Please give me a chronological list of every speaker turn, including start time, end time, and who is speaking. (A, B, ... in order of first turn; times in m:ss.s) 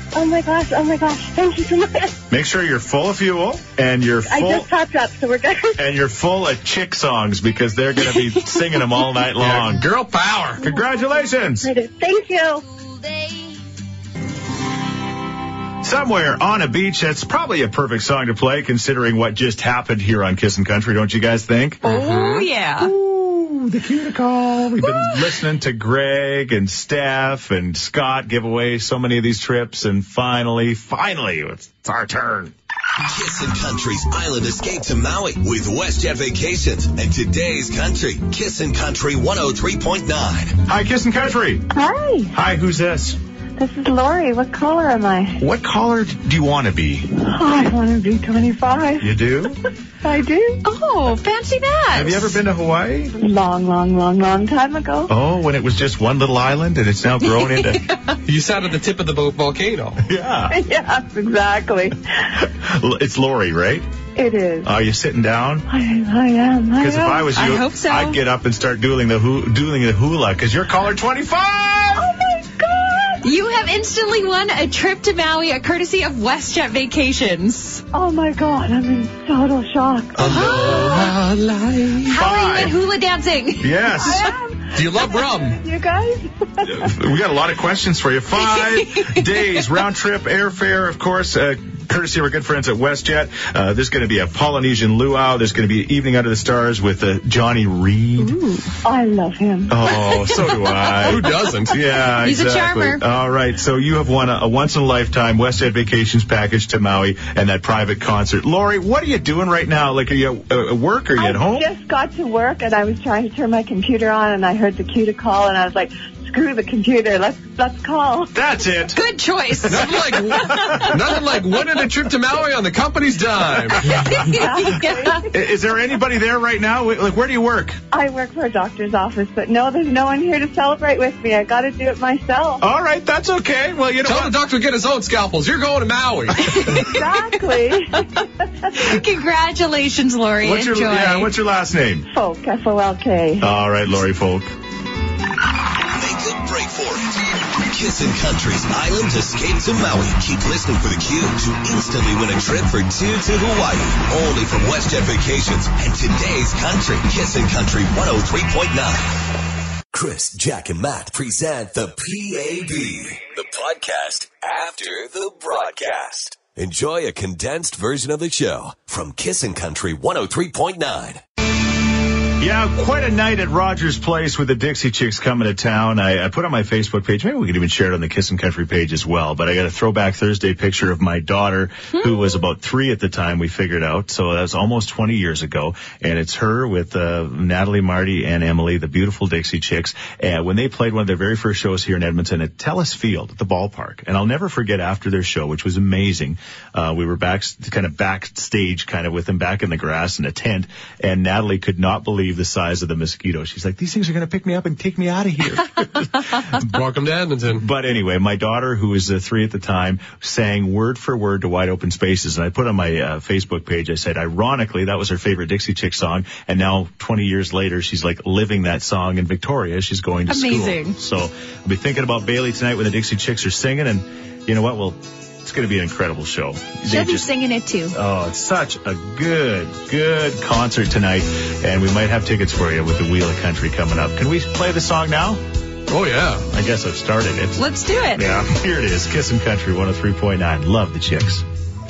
0:00.1-0:02.2 A
0:02.3-0:04.7 B
0:04.3-0:05.8 A
0:05.8-0:09.9 B
0:09.4-0:10.6 C
0:10.6-0:11.7 B
0:10.6-0:10.9 A
0:11.6-0:12.6 A
0:15.8-0:21.9 B
0:21.8-0:22.9 D
0:21.9-0:22.4 C
0:22.8-0:32.5 B
0:33.0-0:40.6 E
0:40.6-0:41.7 B
0:41.7-0:42.4 A
0:42.3-0:43.2 B
0:43.6-0:45.4 A
0:45.4-0:47.2 B
0:47.2-0:49.4 A
0:49.0-0:49.6 B
0:50.0-0:50.6 A
0:50.6-0:52.4 D
0:51.9-0:53.1 B
0:53.2-0:55.1 A
0:55.1-0:57.9 B
0:57.8-0:58.2 D
0:58.2-1:00.0 C
1:00.0-1:00.6 B
1:00.5-1:02.4 A
1:02.4-1:03.9 B
1:04.2-1:04.7 A
1:04.6-1:05.7 B
1:05.7-1:07.4 A
1:06.8-1:12.1 B
1:07.4-1:08.2 D
1:12.0-1:13.4 A
1:13.2-1:17.8 D
1:17.9-1:20.5 A
1:20.2-1:22.2 C
1:20.2-1:21.2 D
1:22.1-1:22.8 B
1:22.1-1:23.8 D
1:23.6-1:24.3 B
1:23.9-1:27.0 A
1:24.7-1:25.6 C
1:26.6-1:38.4 B
1:28.6-1:29.1 D
1:38.2-1:38.7 D
1:38.8-1:40.2 A
1:39.7-1:51.7 B
1:41.0-1:41.8 C
1:42.1-1:43.0 D
1:51.2-1:58.3 A
1:58.3-1:59.0 B
1:58.9-2:00.8 D
1:59.7-2:03.9 C
2:00.5-2:00.9 B
2:03.8-2:05.2 D
2:04.1-2:05.3 A
2:05.3-2:07.8 B
2:07.9-2:12.6 A
2:12.6-2:14.4 B
2:14.0-2:16.7 C
2:16.4-2:17.0 D
2:16.8-2:18.1 A
2:18.7-2:19.0 A
2:18.8-2:21.3 D
2:20.4-2:22.1 B
2:22.1-2:23.5 A
2:23.4-2:24.5 B
2:25.8-2:39.3 E
2:39.9-2:51.2 E
2:52.4-3:26.7 B
3:26.5-3:27.7 C
3:27.5-3:47.3 B
3:40.3-3:41.0 D
3:46.8-3:48.0 D
3:47.9-3:55.4 B
3:55.9-3:56.5 C
3:56.5-4:01.4 B
3:57.6-3:58.3 D